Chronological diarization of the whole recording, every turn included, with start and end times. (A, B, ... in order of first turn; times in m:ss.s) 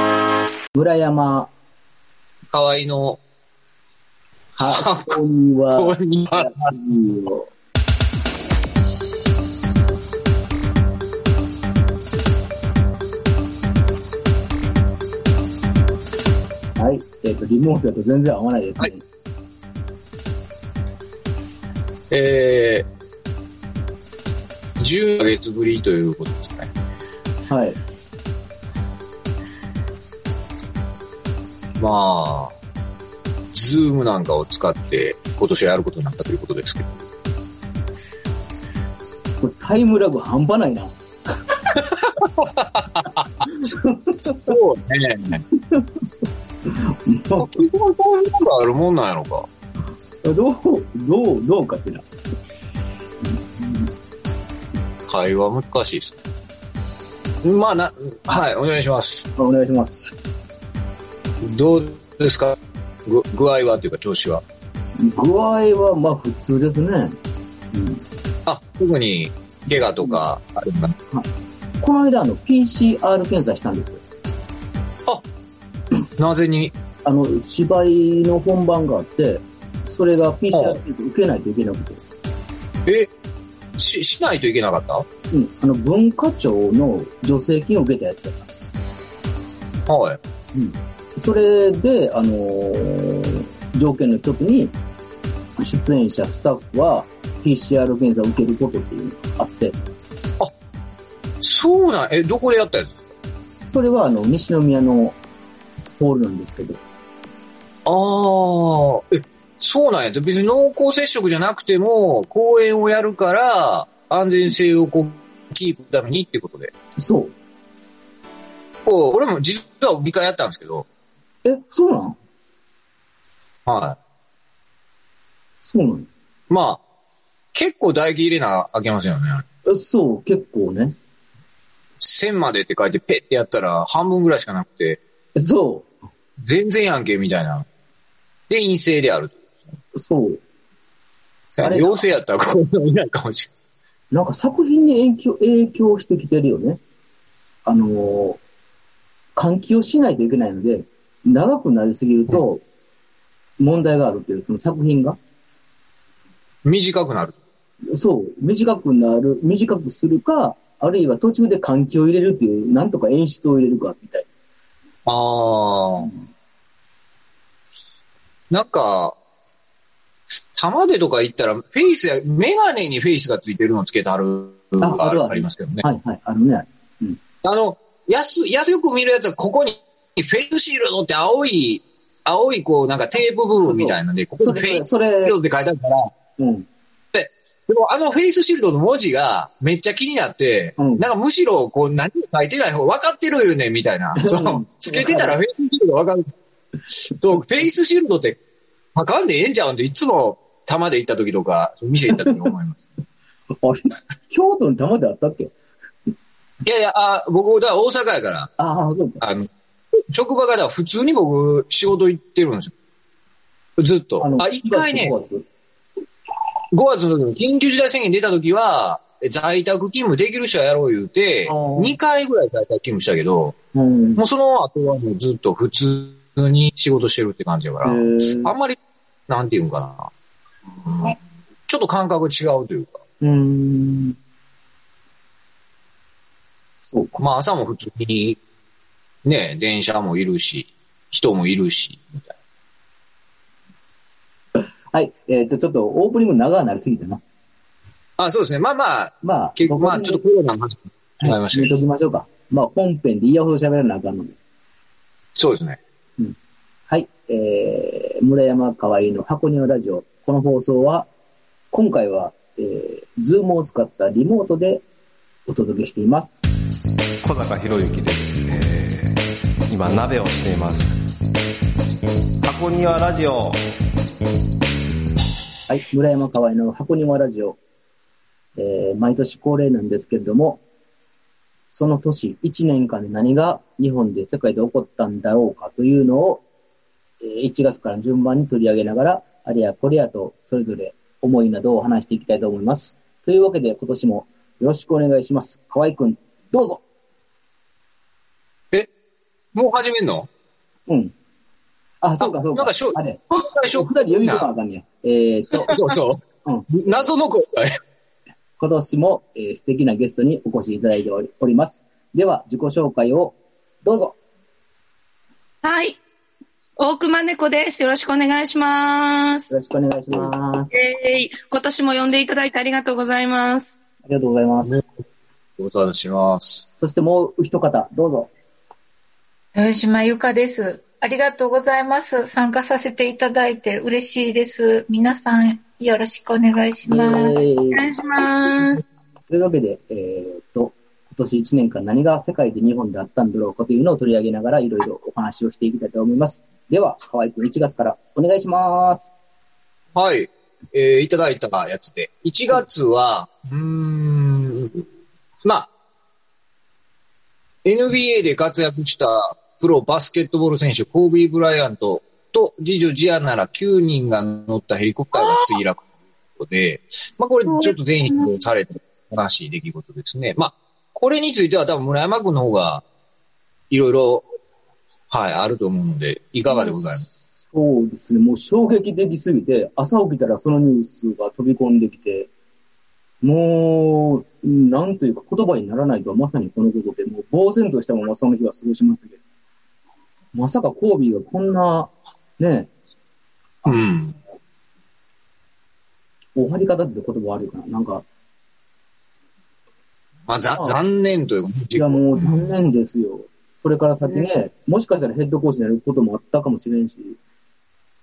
0:00.7-0:01.5 A
0:02.5-0:03.2 B
0:04.6-0:05.2 B
0:04.6-0:07.5 A
0:05.8-0:06.7 B
0:16.8-0:19.0 A
0:22.1-0:22.9 B
0:24.8-0:26.7 B
0:27.5-0:27.8 A
0:31.8-0:32.5 B
0:33.5-0:37.0 B
0:39.4-0:41.0 A
0:42.0-0:43.5 B
0:43.5-0:44.6 A
0:44.2-0:45.4 B
0:45.6-0:46.0 A
0:46.7-0:47.6 A
0:47.4-0:49.5 B
0:50.2-0:52.1 A
0:53.2-0:53.9 A
0:55.1-0:56.2 B
0:57.4-0:59.3 B
0:59.4-1:00.2 A
1:01.4-1:04.4 B
1:05.0-1:07.2 A
1:07.7-1:08.0 A
1:08.5-1:10.9 B
1:09.8-1:10.2 A
1:11.8-1:14.0 A
1:16.2-1:16.7 B
1:17.0-1:22.0 A
1:20.5-1:20.8 B
1:23.8-1:25.0 B
1:25.3-1:28.7 A
1:29.9-1:30.2 B
1:30.5-1:34.8 A
1:35.6-1:39.8 A
1:41.4-1:43.0 B
1:43.7-1:45.2 A
1:46.0-1:46.8 A
1:47.9-1:56.7 B
1:57.0-1:57.4 A
1:58.9-2:00.9 B
2:01.4-2:02.2 A
2:03.7-2:04.0 B
2:05.6-2:06.1 A
2:06.5-2:06.8 B
2:07.5-2:09.4 B
2:09.7-2:11.0 A
2:12.0-2:15.0 B
2:15.4-2:15.9 A
2:16.4-2:17.7 B
2:18.5-2:19.4 B
2:20.0-2:20.4 A
2:21.5-2:23.5 B
2:21.6-2:22.0 A
2:24.1-2:26.8 A
2:27.6-2:28.4 A
2:29.4-2:32.6 A
2:33.6-2:35.2 A
2:36.6-2:37.4 B
2:37.9-2:44.3 A
2:45.1-2:46.1 B
2:46.0-2:46.2 A
2:48.5-2:49.2 B
2:50.5-2:55.8 B
2:54.8-2:57.2 A
2:57.4-3:06.1 B
3:03.6-3:05.4 A
3:06.4-3:06.7 A
3:07.1-3:16.3 B
3:10.8-3:11.0 A
3:14.2-3:15.4 A
3:17.0-3:18.4 B
3:19.0-3:22.9 B
3:22.1-3:22.5 A
3:23.6-3:25.6 A
3:26.6-3:28.5 B
3:28.6-3:29.2 A
3:29.2-3:29.5 B
3:30.1-3:32.7 B
3:33.8-3:35.1 B
3:34.2-3:35.5 A
3:36.7-3:43.6 B
3:41.4-3:42.0 A
3:43.7-3:44.2 A
3:44.2-3:48.8 B
3:47.8-3:48.5 A
3:49.3-3:50.1 B
3:50.9-3:51.2 B
3:51.7-3:53.0 B
3:53.2-3:54.2 A
3:56.9-3:57.2 A
3:57.2-3:58.4 B
3:59.2-4:02.3 B
4:04.6-4:07.2 A
4:08.2-4:11.8 B
4:09.2-4:10.2 A
4:11.2-4:14.4 A
4:15.4-4:15.8 B
4:16.9-4:21.1 A
4:21.7-4:24.8 A
4:25.5-4:26.4 A
4:27.2-4:31.0 C
4:32.4-4:33.6 C
4:35.7-4:37.6 A
4:38.6-4:40.6 A
4:41.7-4:46.4 A
4:47.2-4:56.8 A
4:59.6-5:00.3 B
5:00.9-5:01.1 A
5:02.0-5:05.8 A
5:02.2-5:04.5 B
5:05.7-5:07.8 B
5:06.4-5:06.7 A
5:08.6-5:14.2 A
5:15.6-5:16.0 D
5:16.8-5:19.5 D
5:19.5-5:20.7 A
5:20.7-5:23.8 D
5:24.0-5:24.8 A
5:25.6-5:26.7 B
5:26.8-5:28.3 A
5:29.6-5:37.4 E
5:36.9-5:37.9 A
5:37.7-5:38.8 D
5:39.3-5:49.1 A
5:50.0-5:54.8 B
5:55.4-5:55.7 B
5:57.6-6:05.8 B
6:05.2-6:05.5 D
6:06.4-6:12.8 B
6:07.5-6:08.4 D
6:13.7-6:14.3 B
6:15.1-6:17.1 B
6:17.5-6:22.3 A
6:23.2-6:29.2 A
6:30.3-6:32.7 A
6:33.6-6:34.2 B
6:36.4-6:38.0 A
6:40.3-6:42.5 B
6:41.7-6:47.2 A